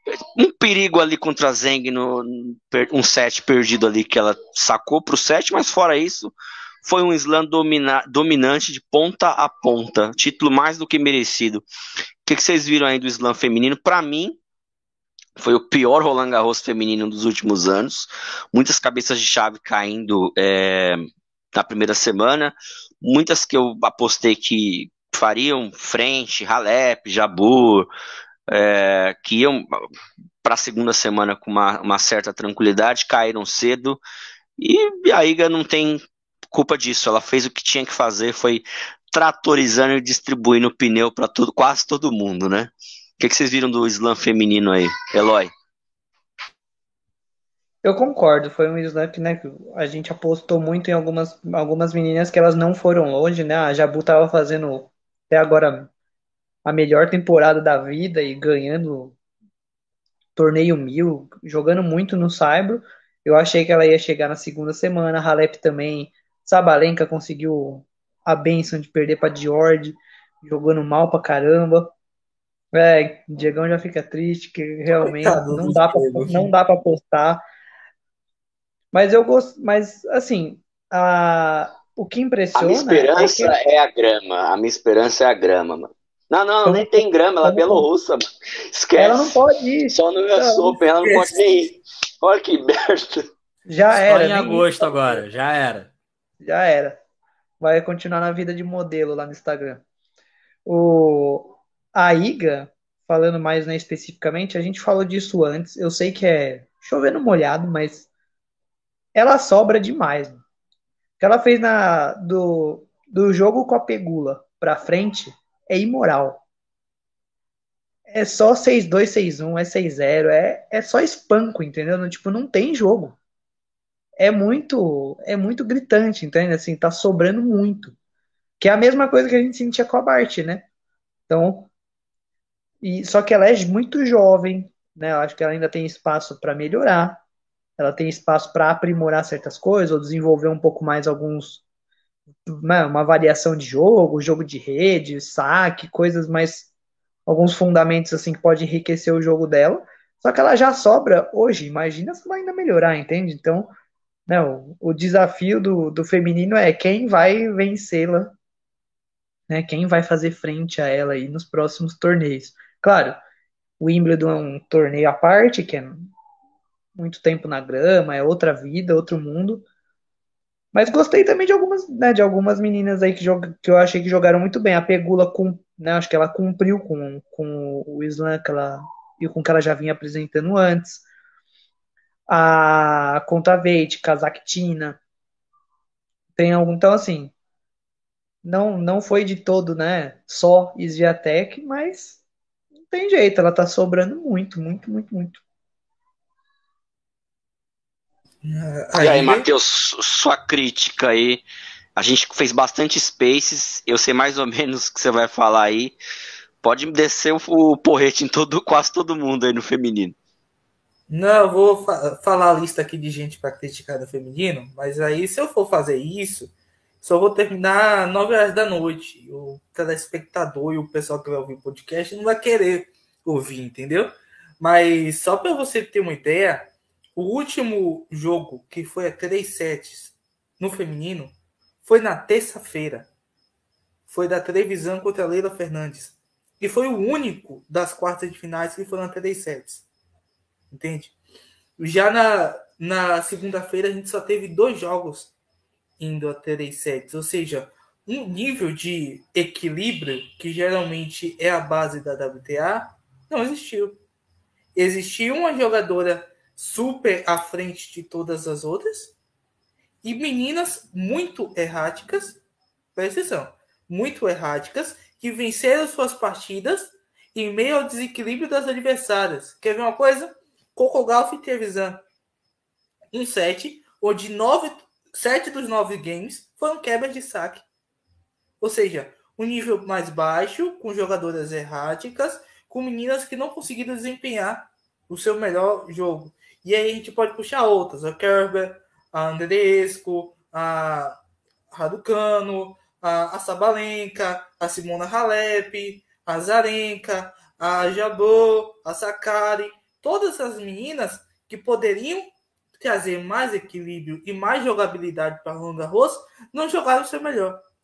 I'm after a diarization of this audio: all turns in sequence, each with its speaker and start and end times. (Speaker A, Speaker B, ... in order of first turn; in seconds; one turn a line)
Speaker A: 0.3-11.6
Speaker A: 12.2-14.4
Speaker A: 15.4-27.9
Speaker A: 28.5-29.8
Speaker A: 30.4-34.0
Speaker A: 34.6-45.5
Speaker B: 47.8-55.9
Speaker B: 56.6-59.1
Speaker B: 60.4-71.9
Speaker B: 72.7-77.4
Speaker C: 74.9-76.5
Speaker B: 78.9-83.5
Speaker A: 82.5-89.3
Speaker B: 86.6-87.9
Speaker B: 89.0-90.8
Speaker A: 89.9-93.2
Speaker B: 93.7-95.2
Speaker D: 93.9-95.9
Speaker B: 96.4-97.0
Speaker B: 97.6-99.8
Speaker B: 100.7-108.1
Speaker B: 109.1-110.4
Speaker B: 111.2-116.4
Speaker B: 118.1-123.2
Speaker B: 124.2-127.9
Speaker B: 128.6-130.7
Speaker B: 131.3-131.7
Speaker B: 132.8-137.2
Speaker B: 137.8-141.6
Speaker B: 142.5-146.7
Speaker B: 147.2-153.7
Speaker B: 154.3-158.3
Speaker B: 159.5-163.2
Speaker B: 163.8-166.1
Speaker B: 166.9-169.6
Speaker B: 170.7-181.0
Speaker B: 182.3-185.0
Speaker B: 186.3-187.3
Speaker B: 188.4-192.2
Speaker B: 192.9-195.4
Speaker C: 198.4-199.5
Speaker A: 199.0-201.4
Speaker A: 201.9-205.9
Speaker A: 206.6-210.2
Speaker C: 211.1-233.1
Speaker C: 234.1-239.8
Speaker C: 240.7-241.2
Speaker C: 241.8-245.3
Speaker C: 246.0-254.0
Speaker C: 254.7-259.1
Speaker C: 260.0-262.4
Speaker C: 262.9-272.0
Speaker C: 273.1-277.6
Speaker C: 278.6-291.2
Speaker C: 291.7-307.6